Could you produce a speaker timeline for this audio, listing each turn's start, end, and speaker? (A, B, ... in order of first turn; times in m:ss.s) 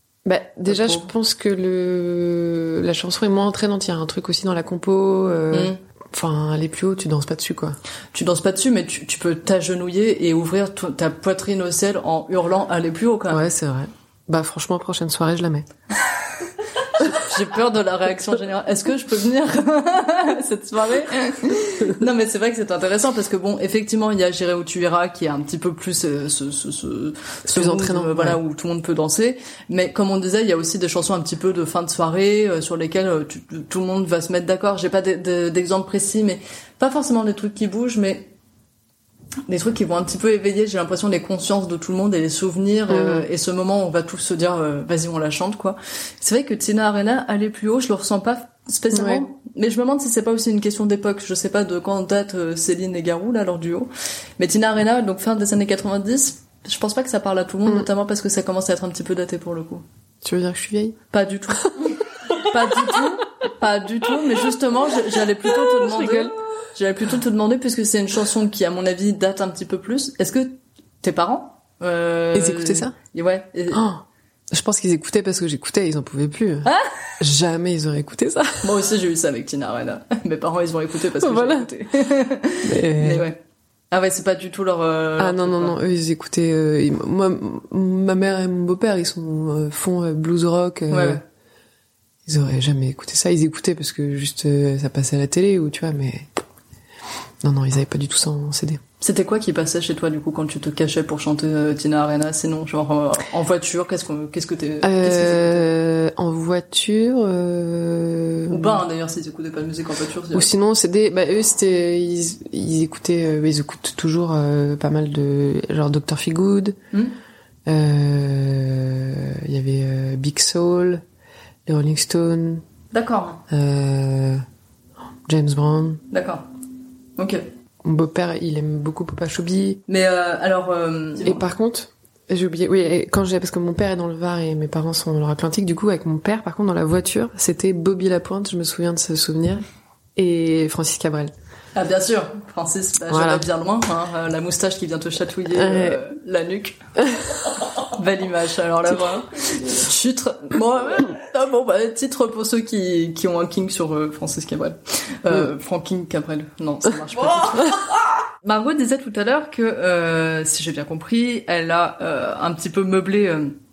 0:00.2-0:07.8 A
0:00.7-0:01.1 B
0:05.5-0:05.8 B
0:08.1-0:13.5 B
0:13.3-0:15.7 A
0:17.0-0:38.3 B
0:27.5-0:28.4 A
0:39.5-0:59.8 B
0:42.9-0:43.3 A
0:48.9-0:49.2 A
1:00.2-1:01.0 A
1:01.1-1:13.8 B
1:05.8-1:06.3 A
1:12.3-1:12.9 A
1:13.7-1:16.7 A
1:16.6-1:16.9 B
1:17.2-1:18.7 A
1:18.6-1:23.4 B
1:21.2-1:21.7 A
1:22.6-1:23.3 A
1:23.9-1:25.8 B
1:25.2-1:31.2 A
1:30.9-1:31.2 B
1:32.3-1:36.3 A
1:37.4-1:38.8 A
1:39.0-1:45.7 B
1:44.8-1:48.8 A
1:48.5-1:50.5 B
1:50.3-1:56.8 A
1:57.7-2:01.0 A
2:01.7-2:02.6 A
2:02.9-2:03.4 B
2:03.5-2:04.4 A
2:05.3-2:06.0 A
2:06.1-2:06.5 B
2:07.2-2:07.4 B
2:07.8-2:09.8 A
2:09.9-2:11.5 B
2:11.2-2:19.6 A
2:20.2-2:21.3 A
2:21.8-2:26.8 B
2:23.1-2:23.4 A
2:25.5-2:26.0 A
2:27.8-2:37.8 B
2:38.4-2:43.6 B